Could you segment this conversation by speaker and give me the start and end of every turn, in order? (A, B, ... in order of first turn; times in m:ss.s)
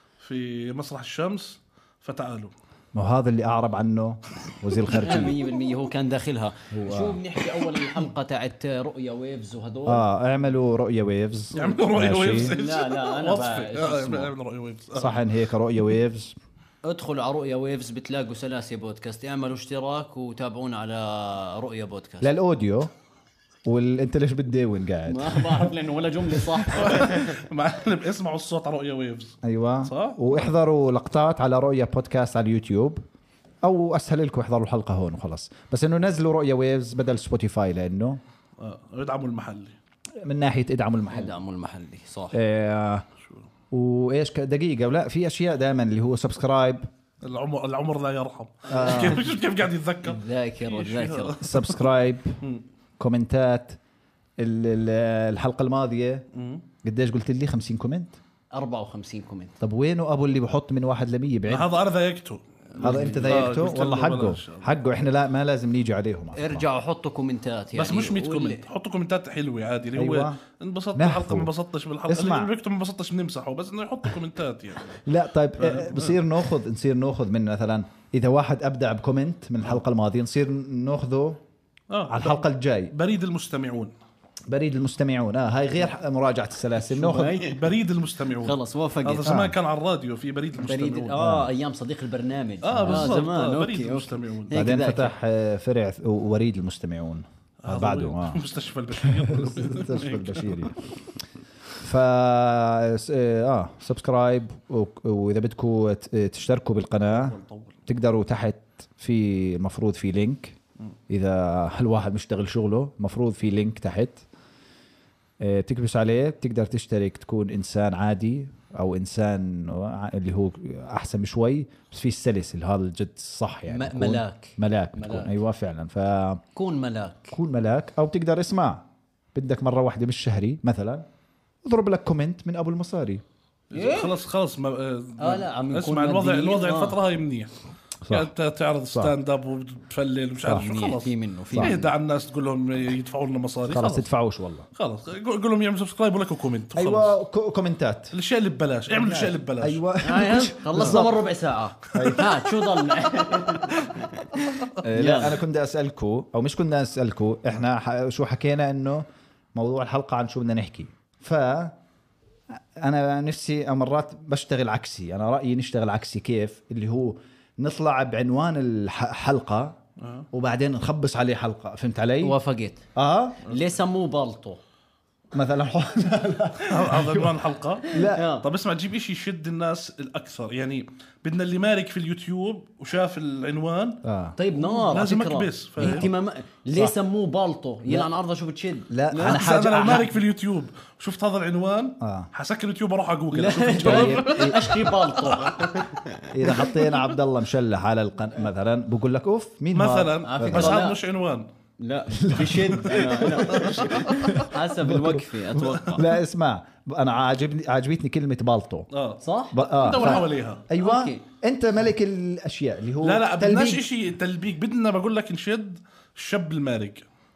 0:00.2-0:02.5 A
0:02.9-0:05.4 B
0:04.9-0:10.0 C
0:06.7-0:07.2 B
0:09.9-0:12.6 B
0:11.6-0:15.2 A
0:12.6-0:14.3 C
0:15.0-0:16.4 B
0:16.8-0:22.3 C
0:22.2-0:22.9 B
0:23.7-0:25.7 B
0:25.1-0:27.2 C
0:26.7-0:30.5 A
0:29.4-0:33.0 B
0:33.6-0:38.2 B
0:38.6-0:39.8 A
0:40.2-0:41.4 B
0:41.1-0:42.4 C
0:42.3-0:43.1 B
0:43.7-0:46.8 B
0:47.2-0:51.8 A
0:48.7-0:49.3 C
0:48.7-0:49.3 B
0:50.0-0:51.4 C
0:51.4-0:52.4 B
0:53.0-0:53.8 B
0:54.4-0:56.3 B
0:56.3-0:56.6 A
0:56.8-0:58.2 B
0:58.5-0:59.6 C
0:59.6-1:01.7 B
1:01.5-1:04.7 A
1:02.8-1:03.5 C
1:02.8-1:06.7 B
1:06.4-1:08.7 C
1:07.7-1:15.0 A
1:10.0-1:10.4 B
1:11.0-1:11.5 B
1:12.1-1:12.5 B
1:15.0-1:21.4 B
1:15.6-1:16.2 A
1:21.9-1:23.9 A
1:22.1-1:22.9 B
1:24.5-1:27.4 B
1:26.9-1:27.6 C
1:27.3-1:31.2 A
1:28.4-1:29.3 C
1:29.2-1:29.6 B
1:30.6-1:35.2 C
1:31.2-1:31.5 B
1:32.6-1:34.5 A
1:32.7-1:33.1 B
1:34.5-1:38.4 B
1:37.6-1:40.7 A
1:39.0-1:40.9 B
1:41.8-1:50.6 B
1:47.1-1:47.8 A
1:51.1-1:54.2 B
1:55.4-2:06.4 B
2:03.7-2:05.3 C
2:06.6-2:07.4 C
2:07.3-2:11.0 B
2:11.6-2:13.2 B
2:13.7-2:17.5 A
2:13.7-2:14.2 C
2:15.2-2:17.0 C
2:18.0-2:18.3 B
2:18.1-2:24.1 A
2:20.5-2:21.9 C
2:23.7-2:24.7 B
2:24.8-2:27.2 A
2:26.8-2:28.1 B
2:28.1-2:29.8 A
2:28.9-2:31.2 B
2:30.0-2:35.4 C
2:31.9-2:32.2 A
2:31.9-2:32.5 B
2:34.8-2:41.8 B
2:42.8-2:49.8 B
2:50.0-2:50.3 A
2:50.3-2:52.4 B
2:52.2-2:52.8 C
2:53.0-2:53.4 B
2:53.5-2:54.6 C
2:55.3-2:57.4 B
2:56.7-3:04.0 A
2:57.9-2:58.2 B
2:58.0-2:58.4 C
3:04.0-3:04.4 B
3:04.4-3:09.5 C
3:04.6-3:06.1 A
3:05.8-3:06.1 B
3:08.9-3:10.1 B
3:09.2-3:15.9 A
3:12.0-3:12.3 B
3:13.3-3:16.3 C
3:13.8-3:14.7 B
3:16.3-3:20.8 B
3:16.5-3:17.1 A
3:19.7-3:21.5 A
3:20.2-3:21.0 C
3:21.8-3:26.0 C
3:22.2-3:28.9 B
3:23.3-3:24.5 A
3:25.7-3:26.0 A
3:28.9-3:30.6 A
3:29.2-3:30.2 C
3:29.5-3:33.8 B
3:30.7-3:31.2 C
3:33.0-3:37.0 A